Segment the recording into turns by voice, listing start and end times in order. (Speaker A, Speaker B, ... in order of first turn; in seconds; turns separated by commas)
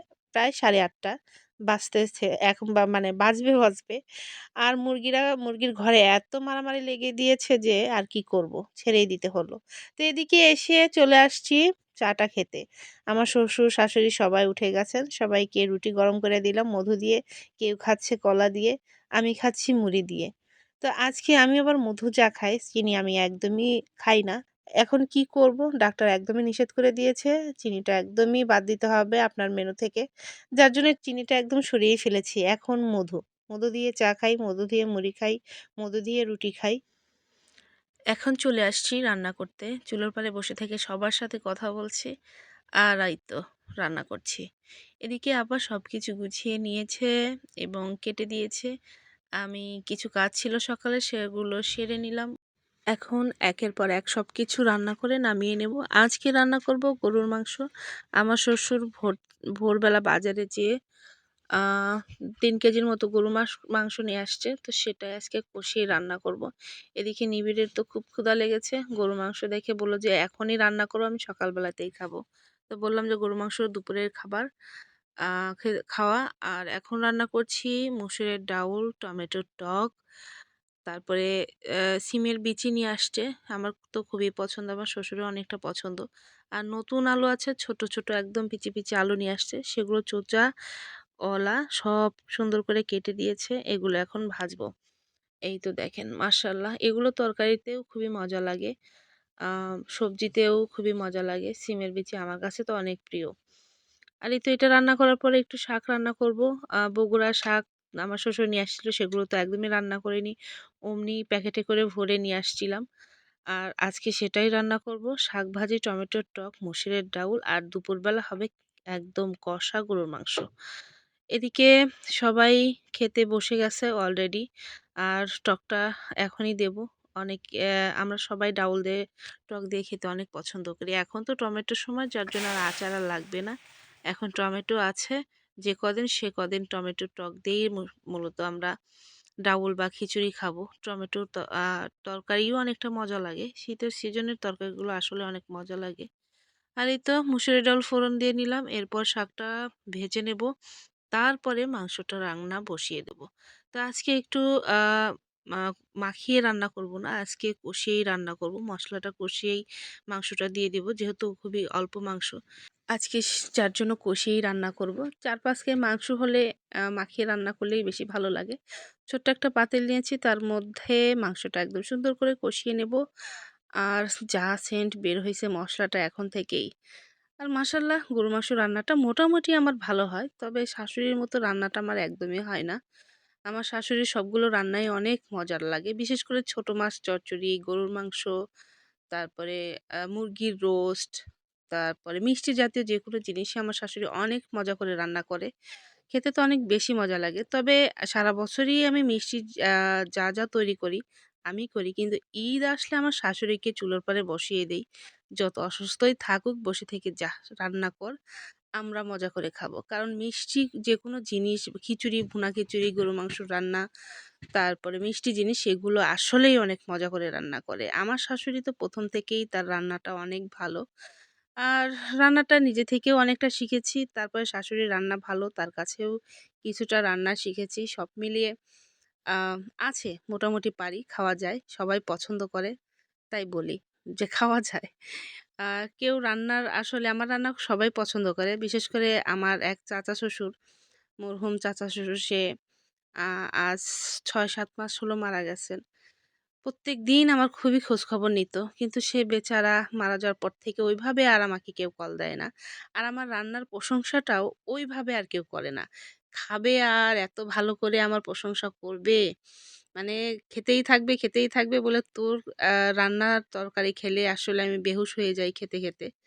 Speaker A: 0.4-1.1, Speaker A: 1.7-4.0, Speaker A: 4.6-20.3, Speaker A: 20.8-30.0, Speaker A: 30.6-36.8, Speaker A: 38.1-42.1, Speaker A: 42.8-44.4, Speaker A: 45.0-47.1, Speaker A: 47.6-48.7, Speaker A: 49.4-52.3, Speaker A: 52.9-57.6, Speaker A: 58.2-60.7, Speaker A: 62.4-66.5, Speaker A: 67.0-72.2, Speaker A: 72.7-74.5, Speaker A: 75.3-79.9, Speaker A: 80.9-81.3, Speaker A: 82.1-86.0, Speaker A: 86.6-90.5, Speaker A: 91.3-94.7, Speaker A: 95.5-98.7, Speaker A: 99.5-103.3, Speaker A: 104.3-110.3, Speaker A: 110.9-112.8, Speaker A: 113.5-120.5, Speaker A: 121.3-124.4, Speaker A: 125.1-127.4, Speaker A: 128.0-129.0, Speaker A: 129.5-133.6, Speaker A: 134.1-138.7, Speaker A: 139.5-146.1, Speaker A: 146.8-150.5, Speaker A: 151.1-155.0, Speaker A: 155.6-162.4, Speaker A: 162.9-166.4, Speaker A: 166.9-168.6, Speaker A: 169.1-173.0, Speaker A: 173.8-176.7, Speaker A: 177.4-182.8, Speaker A: 183.5-188.3, Speaker A: 189.1-189.6, Speaker A: 190.1-191.1, Speaker A: 191.7-195.5, Speaker A: 196.1-199.4, Speaker A: 200.2-201.0, Speaker A: 201.5-204.8, Speaker A: 205.4-208.1, Speaker A: 208.8-213.8, Speaker A: 214.5-220.8, Speaker A: 221.7-226.1, Speaker A: 226.6-228.5, Speaker A: 229.4-232.7, Speaker A: 233.3-234.9, Speaker A: 235.7-240.5, Speaker A: 241.2-242.4, Speaker A: 243.6-245.8, Speaker A: 246.7-255.8, Speaker A: 256.4-259.2, Speaker A: 260.0-262.4, Speaker A: 263.0-266.1